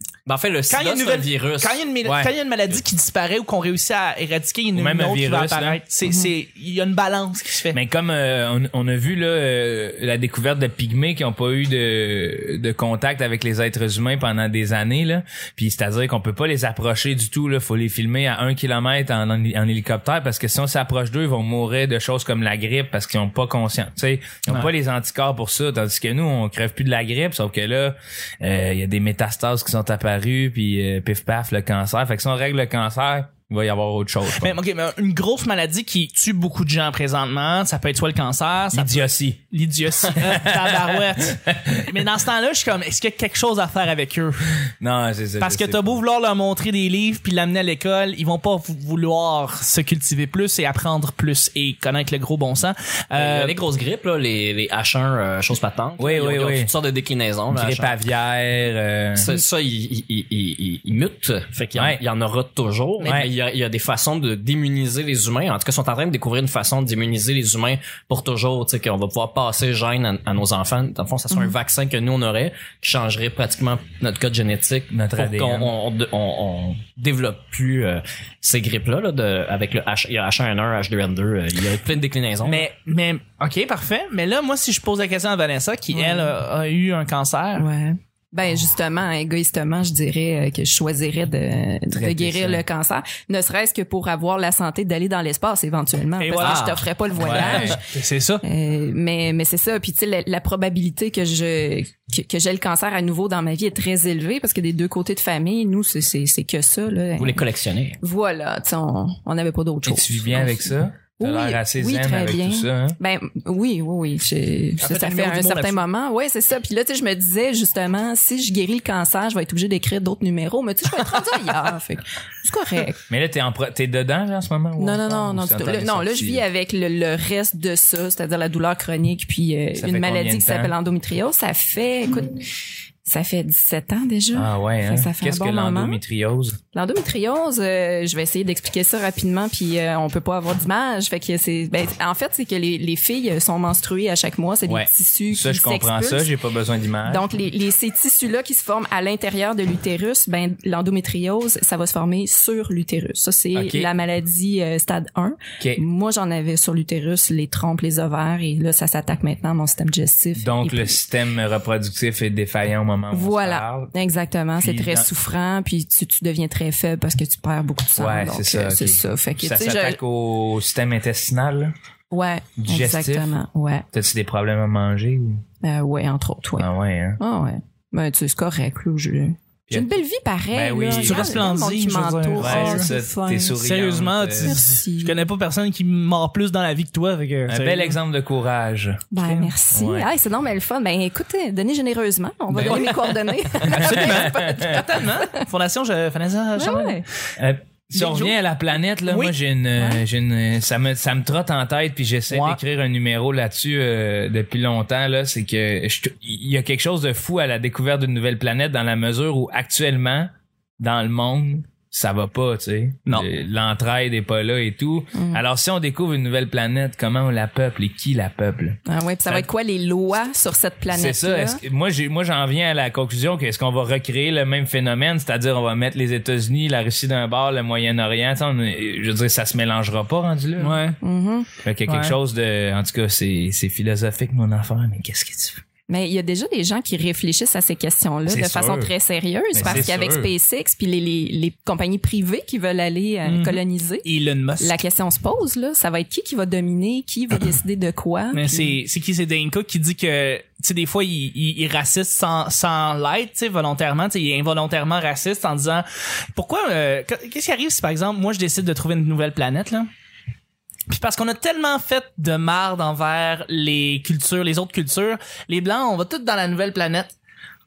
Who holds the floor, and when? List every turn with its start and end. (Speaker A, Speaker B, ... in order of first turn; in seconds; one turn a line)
Speaker A: 0.2-1.8
Speaker B: 0.7-7.8
Speaker C: 2.0-2.3
Speaker C: 4.7-5.8
Speaker C: 7.7-34.6
Speaker B: 34.4-44.5
Speaker C: 38.7-39.4
Speaker C: 40.1-41.9
Speaker C: 44.7-46.0
Speaker B: 45.4-53.5
Speaker A: 53.1-57.9
Speaker C: 56.0-56.7
Speaker C: 57.5-59.3
Speaker A: 59.1-82.6
Speaker C: 61.7-62.0
Speaker C: 63.0-63.3
Speaker C: 74.9-75.7
Speaker B: 82.4-87.7
Speaker D: 85.9-86.3
Speaker D: 87.6-97.9
Speaker C: 91.9-92.6
Speaker B: 96.2-98.4
Speaker A: 96.4-97.5
Speaker C: 97.2-97.8
Speaker D: 98.4-107.4
Speaker A: 107.2-108.0
Speaker D: 108.0-123.0
Speaker C: 109.8-113.0
Speaker B: 114.8-115.8
Speaker C: 123.1-126.4
Speaker D: 124.8-132.4
Speaker C: 129.8-130.7
Speaker D: 133.1-136.0
Speaker C: 134.3-136.6
Speaker D: 136.7-146.3
Speaker C: 144.7-147.2
Speaker D: 147.0-161.0
Speaker C: 153.5-153.9
Speaker C: 160.4-163.9
Speaker D: 163.1-170.0
Speaker C: 164.6-165.1
Speaker C: 167.9-171.7
Speaker D: 172.1-173.8
Speaker C: 172.6-173.3
Speaker C: 173.9-175.4
Speaker D: 175.6-176.7
Speaker C: 176.6-177.2
Speaker D: 177.2-183.6
Speaker C: 180.5-181.5
Speaker B: 181.0-182.9
Speaker C: 182.4-184.6
Speaker B: 183.6-188.0
Speaker D: 184.4-185.2
Speaker C: 187.5-189.1
Speaker D: 189.1-195.4
Speaker B: 189.2-189.5
Speaker C: 189.7-190.1
Speaker C: 192.5-192.9
Speaker C: 193.7-194.8
Speaker B: 193.7-197.0
Speaker D: 196.6-197.0
Speaker C: 197.4-219.5
Speaker B: 197.9-198.4
Speaker B: 199.1-199.3
Speaker D: 199.8-200.0
Speaker B: 202.3-202.6
Speaker D: 215.1-215.4
Speaker D: 218.9-221.6
Speaker C: 220.9-230.8
Speaker B: 230.6-231.0
Speaker D: 231.0-231.5
Speaker C: 231.6-235.6
Speaker B: 231.9-232.2
Speaker D: 235.9-244.1
Speaker C: 238.3-238.9
Speaker C: 239.5-240.3
Speaker B: 243.2-244.8
Speaker D: 244.6-248.8
Speaker B: 248.3-259.9
Speaker B: 260.9-267.1